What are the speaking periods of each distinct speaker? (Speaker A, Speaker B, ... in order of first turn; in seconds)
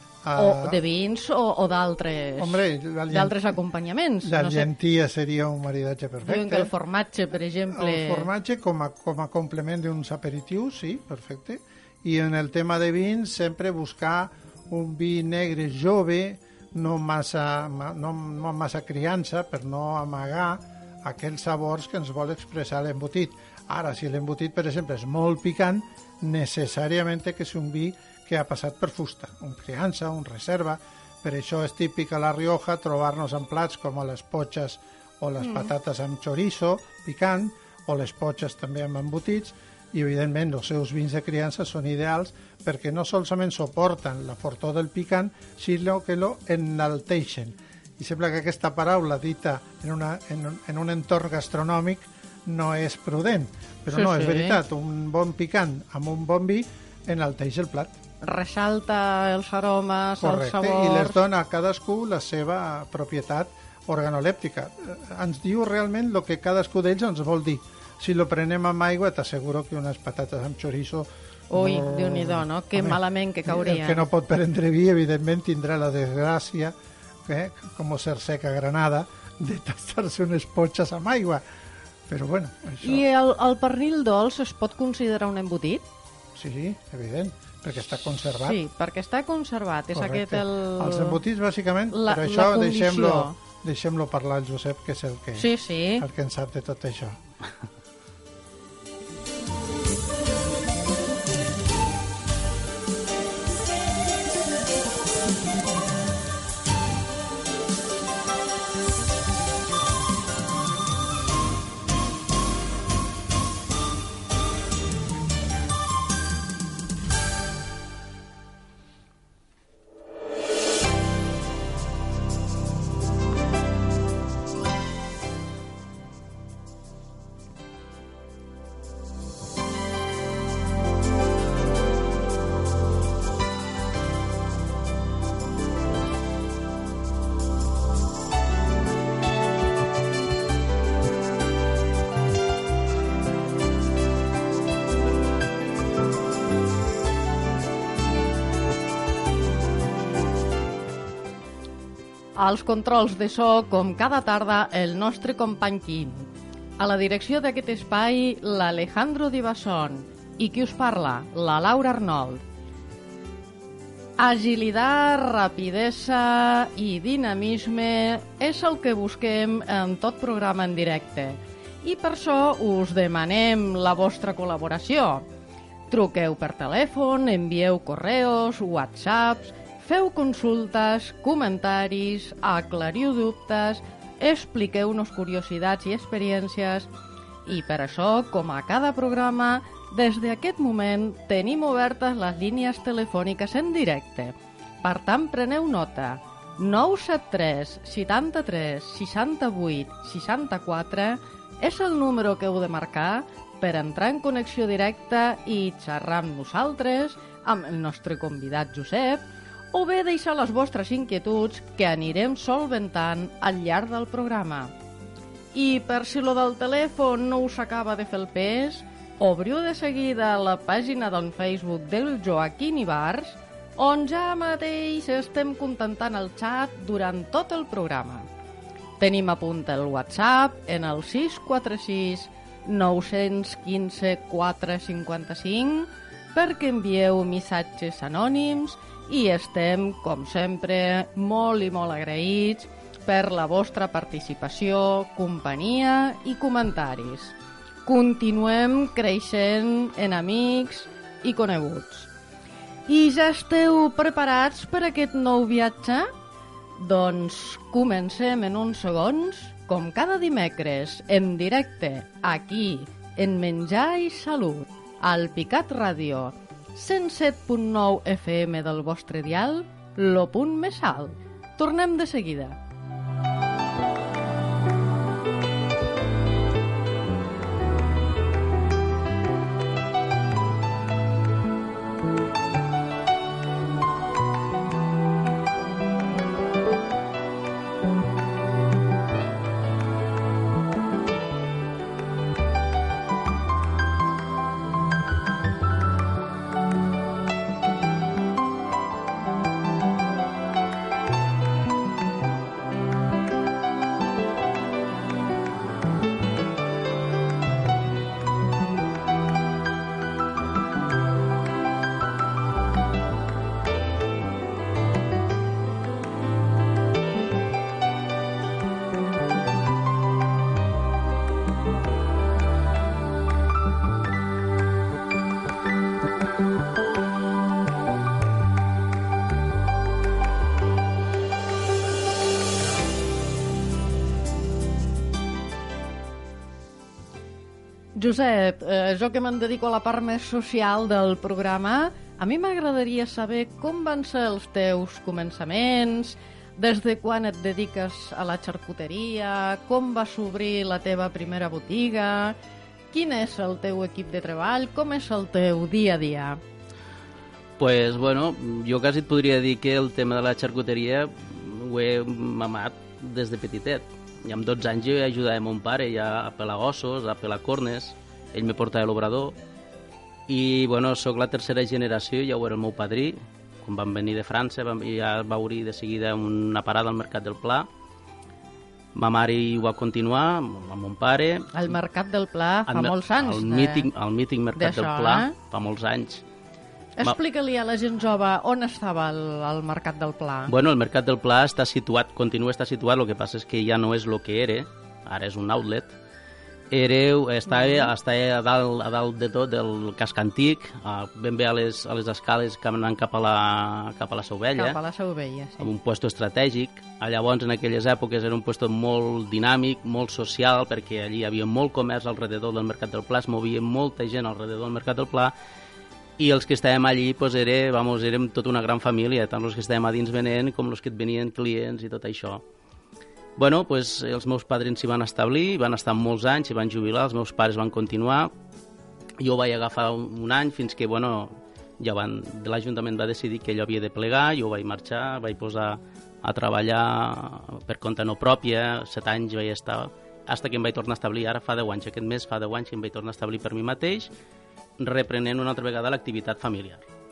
Speaker A: 0.2-0.8, 2.4-3.5, 4.2-6.7, 7.7-58.0, 60.2-76.7, 77.2-81.4, 82.1-83.0, 86.3-88.6, 89.9-97.2
Speaker B: 0.3-4.7, 6.2-8.3, 35.4-35.7, 53.9-54.6, 58.2-61.2, 71.5-74.0, 82.8-85.8, 88.4-91.2, 91.9-93.4, 95.4-96.0, 152.3-156.3, 156.8-162.4, 164.2-175.2, 175.9-186.9, 187.4-214.7, 215.5-228.2, 229.0-247.3, 247.8-252.1, 252.9-256.1, 256.8-272.6, 337.9-352.4, 352.9-356.4, 381.5-383.9, 384.6-385.3, 387.0-390.5, 397.5-397.9, 404.6-405.7
Speaker C: 357.6-369.3, 370.3-377.7, 378.9-381.6, 382.7-386.2, 390.5-395.9, 396.7-404.8, 405.6-415.3, 416.2-422.4, 423.4-428.3, 429.2-444.1, 444.8-446.8